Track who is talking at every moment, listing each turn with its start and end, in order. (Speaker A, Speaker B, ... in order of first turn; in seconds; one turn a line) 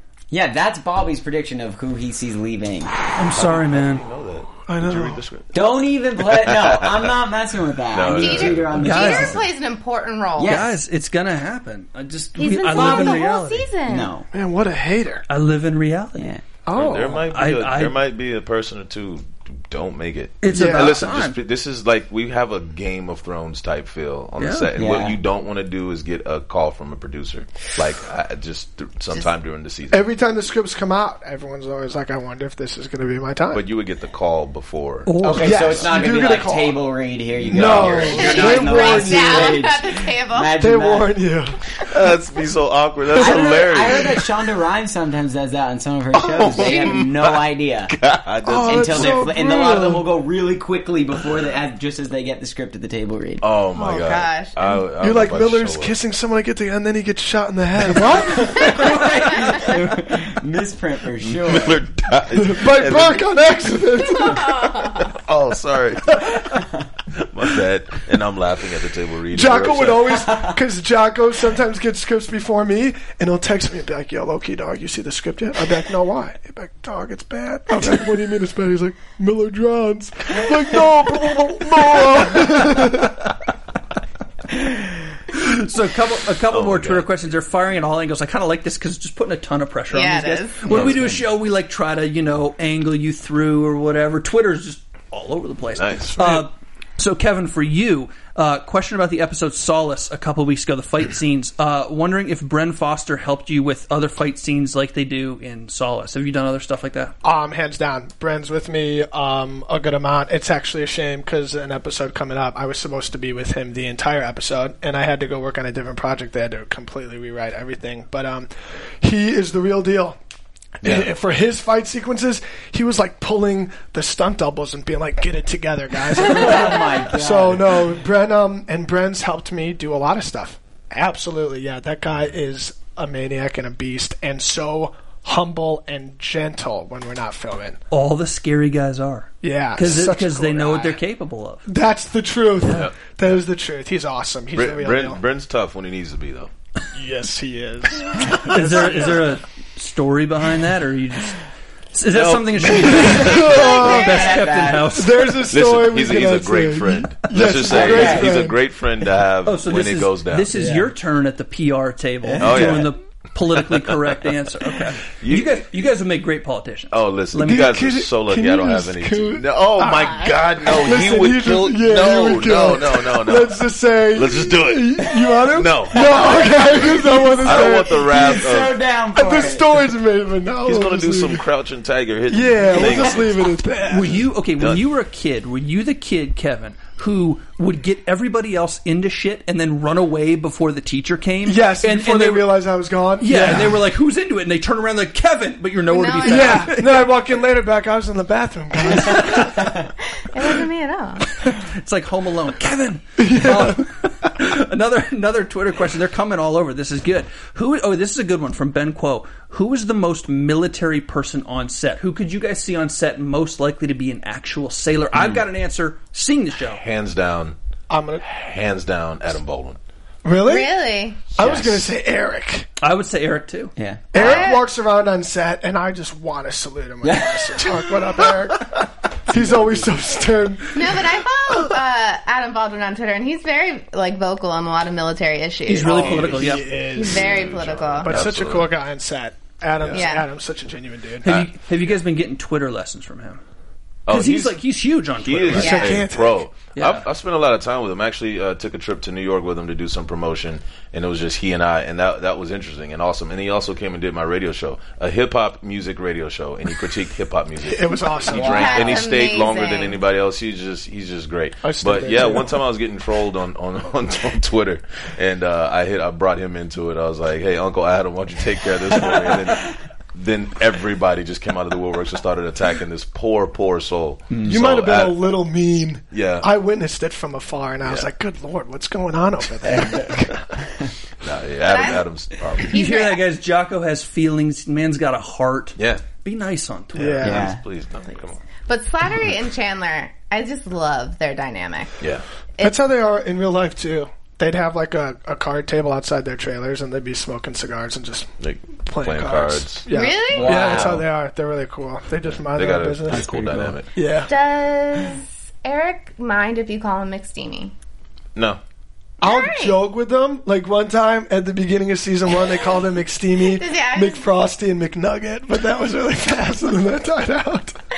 Speaker A: 0.3-2.9
Speaker B: 3.1-4.0
Speaker C: 3.3-7.1
Speaker D: 4.7-5.2
Speaker A: 5.5-9.4
Speaker C: 7.9-9.2
Speaker E: 8.1-10.6
Speaker B: 8.8-9.4
Speaker A: 10.4-10.7
Speaker B: 10.4-13.7
Speaker E: 12.4-14.1
Speaker A: 12.7-13.3
Speaker A: 13.8-14.3
Speaker D: 14.3-15.2
Speaker B: 15.3-16.3
Speaker A: 16.2-16.4
Speaker D: 16.6-17.2
Speaker C: 16.7-30.0
Speaker B: 17.3-18.0
Speaker B: 20.4-21.4
Speaker D: 20.5-21.0
Speaker B: 24.4-24.7
Speaker A: 24.8-25.2
Speaker D: 29.9-33.6
Speaker C: 33.5-35.9
Speaker B: 35.0-35.7
Speaker A: 35.2-41.1
Speaker D: 35.4-36.8
Speaker C: 37.4-38.5
Speaker D: 37.4-39.7
Speaker E: 38.0-40.6
Speaker D: 40.5-41.6
Speaker C: 41.9-44.2
Speaker A: 43.1-47.9
Speaker C: 46.1-49.4
Speaker E: 46.6-47.0
Speaker D: 48.4-50.0
Speaker A: 48.6-53.4
Speaker C: 53.4-55.9
Speaker E: 53.7-54.5
Speaker D: 55.0-59.0
Speaker A: 58.1-61.8
Speaker E: 58.6-58.9
Speaker C: 61.2-63.4
Speaker D: 62.3-64.5
Speaker E: 64.1-65.1
Speaker C: 65.0-66.6
Speaker C: 67.2-70.2
Speaker D: 69.3-83.3
Speaker B: 85.3-107.1
Speaker C: 86.5-87.1
Speaker E: 89.9-90.8
Speaker A: 90.7-91.2
Speaker C: 95.8-96.4
Speaker D: 107.2-120.2
Speaker D: 120.8-137.8
Speaker C: 120.8-121.1
Speaker A: 126.2-127.8
Speaker B: 137.9-141.7
Speaker D: 139.4-141.0
Speaker D: 141.7-145.2
Speaker C: 142.7-143.1
Speaker C: 144.5-146.5
Speaker D: 146.9-149.2
Speaker B: 148.5-151.4
Speaker B: 151.9-155.2
Speaker C: 152.1-153.5
Speaker D: 152.8-154.1
Speaker A: 153.4-154.9
Speaker E: 153.5-154.3
Speaker D: 154.9-158.6
Speaker C: 155.5-160.5
Speaker A: 157.7-158.4
Speaker B: 159.4-167.7
Speaker A: 160.5-160.9
Speaker A: 162.2-162.8
Speaker C: 162.4-162.9
Speaker C: 165.2-165.6
Speaker C: 166.9-173.6
Speaker D: 167.4-178.4
Speaker C: 174.1-178.8
Speaker A: 176.2-176.6
Speaker A: 177.2-179.8
Speaker D: 179.1-181.4
Speaker C: 180.6-183.4
Speaker D: 182.3-184.2
Speaker B: 183.9-192.5
Speaker C: 184.6-184.8
Speaker D: 191.4-193.8
Speaker B: 193.2-196.8
Speaker E: 195.9-196.7
Speaker D: 196.2-199.6
Speaker A: 199.6-199.8
Speaker E: 200.2-201.4
Speaker B: 201.6-216.8
Speaker D: 203.2-203.8
Speaker C: 216.7-217.6
Speaker D: 217.9-218.2
Speaker C: 218.2-219.8
Speaker D: 220.2-220.7
Speaker E: 220.4-221.3
Speaker D: 221.3-222.7
Speaker A: 221.4-221.8
Speaker B: 222.8-223.7
Speaker A: 223.8-224.1
Speaker D: 224.1-228.8
Speaker E: 224.1-224.6
Speaker A: 227.0-227.4
Speaker D: 229.3-230.9
Speaker C: 229.4-229.7
Speaker E: 230.7-238.2
Speaker B: 235.7-236.7
Speaker D: 235.8-237.4
Speaker C: 235.9-236.4
Speaker C: 237.0-238.7
Speaker D: 238.0-241.4
Speaker C: 239.8-240.0
Speaker E: 239.9-240.2
Speaker B: 241.2-243.4
Speaker C: 241.3-241.9
Speaker C: 244.1-244.6
Speaker B: 244.1-245.8
Speaker C: 245.2-275.2
Speaker D: 245.5-246.5
Speaker E: 245.6-246.0
Speaker B: 246.8-247.0
Speaker D: 257.6-258.9
Speaker A: 258.3-258.9
Speaker E: 258.3-260.0
Speaker D: 261.6-262.6
Speaker A: 269.1-269.8
Speaker D: 274.4-280.4
Speaker C: 276.1-276.5
Speaker C: 281.2-282.8
Speaker E: 281.6-282.0
Speaker E: 282.6-283.2
Speaker B: 282.7-287.4
Speaker C: 285.8-286.0
Speaker D: 286.9-287.5
Speaker C: 287.0-288.4
Speaker A: 287.2-287.6
Speaker E: 288.7-292.0
Speaker D: 292.6-298.3
Speaker C: 298.4-299.8
Speaker D: 298.8-303.2
Speaker E: 299.9-300.9
Speaker A: 300.3-301.1
Speaker C: 302.5-303.9
Speaker A: 303.1-303.8
Speaker D: 303.9-304.3
Speaker E: 304.2-307.7
Speaker D: 309.2-317.8
Speaker E: 309.2-309.8
Speaker E: 313.4-314.2